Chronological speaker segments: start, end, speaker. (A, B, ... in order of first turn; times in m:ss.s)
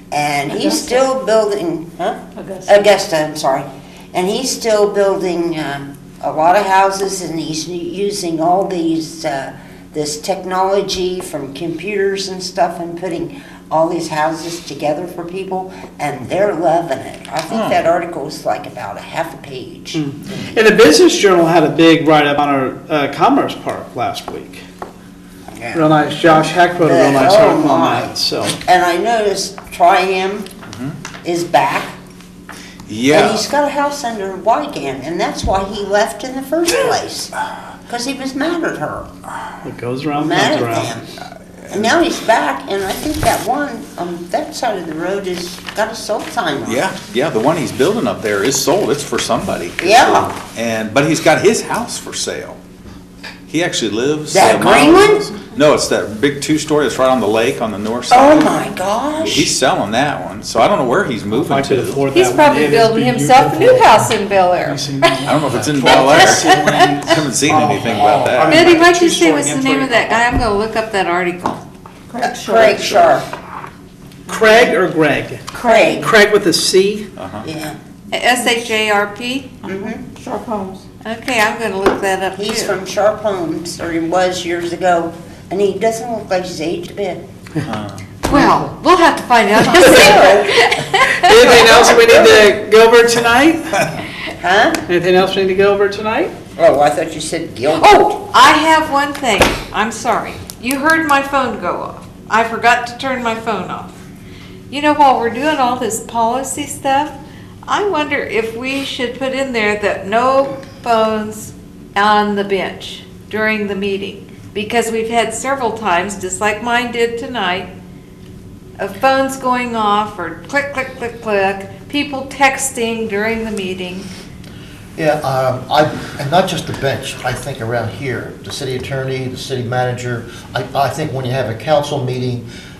0:00.1-0:20.6 A
0:00.5-0:01.1 B
0:02.3-0:03.0 B
0:17.5-0:17.8 C
0:19.9-0:24.6 D
0:25.5-0:25.9 A
0:25.7-0:28.6 D
0:26.8-0:28.1 A
0:28.6-0:30.5 A
0:30.7-0:31.0 C
0:31.2-0:32.0 A
0:32.9-0:33.5 C
0:33.1-0:37.3 A
0:37.9-0:39.1 A
0:39.6-0:40.9 D
0:40.2-0:41.2 A
0:41.7-0:46.8 A
0:46.6-0:52.6 C
0:49.8-0:50.3 A
0:53.5-0:58.6 C
0:54.3-0:55.3 A
0:58.1-0:59.5 A
0:59.2-1:02.1 C
1:01.3-1:10.2 D
1:02.1-1:05.2 E
1:05.2-1:08.6 C
1:06.0-1:07.0 E
1:08.5-1:11.6 E
1:12.1-1:13.2 B
1:12.2-1:13.2 A
1:14.3-1:17.1 D
1:14.4-1:14.7 A
1:15.5-1:16.1 B
1:15.6-1:16.1 A
1:17.2-1:17.4 C
1:17.4-1:17.8 A
1:18.1-1:19.5 E
1:19.6-1:20.8 B
1:19.7-1:20.0 A
1:21.0-1:22.7 E
1:22.3-1:27.2 A
1:27.6-1:28.1 C
1:28.2-1:31.6 E
1:29.7-1:30.6 A
1:29.7-1:30.0 D
1:31.2-1:33.9 D
1:31.4-1:32.5 A
1:34.4-1:34.8 A
1:34.9-1:36.3 D
1:36.6-1:38.3 A
1:37.7-1:44.0 E
1:44.7-1:47.1 E
1:47.6-1:57.7 E
1:58.8-2:04.1 E
2:05.0-2:12.5 F